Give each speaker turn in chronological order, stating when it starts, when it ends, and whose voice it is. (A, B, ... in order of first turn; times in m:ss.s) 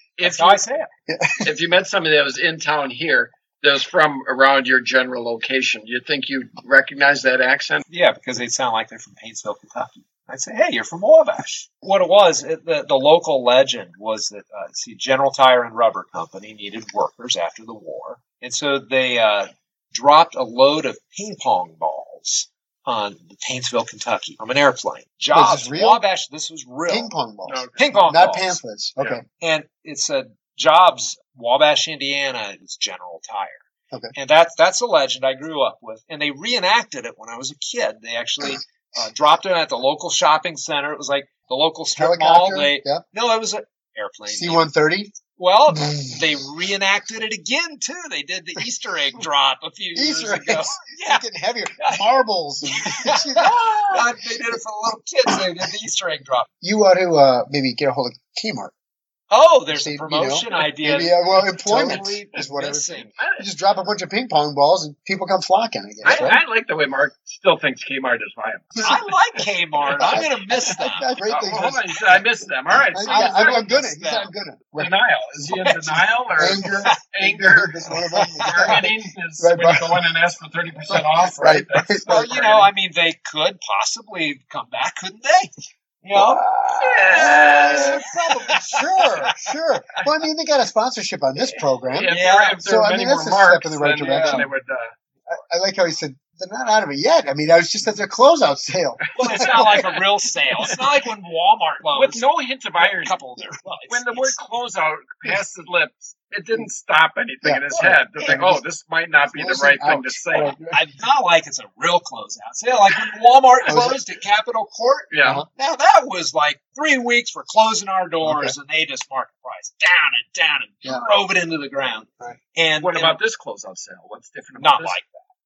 0:00.2-0:00.6 A
0:00.2-0:00.9 B
0:01.1-0:01.5 C
0:01.4-0:07.8 A
0:07.9-0:27.1 B
0:25.3-0:26.0 C
0:26.9-0:29.2 C
0:27.4-0:28.0 A
0:27.8-0:28.6 B
0:29.3-0:44.7 B
0:42.0-0:43.0 C
0:44.3-0:45.2 C
0:45.4-0:51.3 B
0:45.8-0:46.2 C
0:50.0-0:54.1 C
0:51.8-0:52.0 B
0:52.7-0:56.5 B
0:56.6-0:58.7 C
0:59.3-1:03.2 B
0:59.7-1:06.4 C
1:03.2-1:03.5 A
1:06.0-1:09.1 A
1:06.0-1:06.3 B
1:08.8-1:09.0 C
1:08.8-1:11.1 B
1:09.9-1:10.2 A
1:10.0-1:14.9 C
1:11.3-1:13.6 A
1:13.1-1:14.3 B
1:14.8-1:22.7 A
1:15.5-1:16.0 B
1:16.4-1:20.0 C
1:16.6-1:17.0 B
1:18.1-1:18.9 B
1:20.9-1:22.3 C
1:22.0-1:25.5 B
1:26.0-1:26.4 B
1:26.2-1:34.5 C
1:26.8-1:28.0 A
1:27.1-1:29.1 B
1:31.4-1:34.9 A
1:32.1-1:32.6 B
1:34.1-1:34.5 B
1:35.3-1:39.8 C
1:39.2-1:42.3 B
1:39.2-1:39.9 A
1:41.9-1:43.2 A
1:42.8-1:44.4 B
1:43.9-1:50.6 A
1:47.4-1:48.6 C
1:47.7-1:48.4 B
1:49.3-1:50.8 C
1:50.7-2:03.2 B
1:53.7-1:54.0 C
1:55.1-1:55.4 A
1:58.2-1:58.6 C
2:02.8-2:05.0 A
2:04.6-2:05.2 B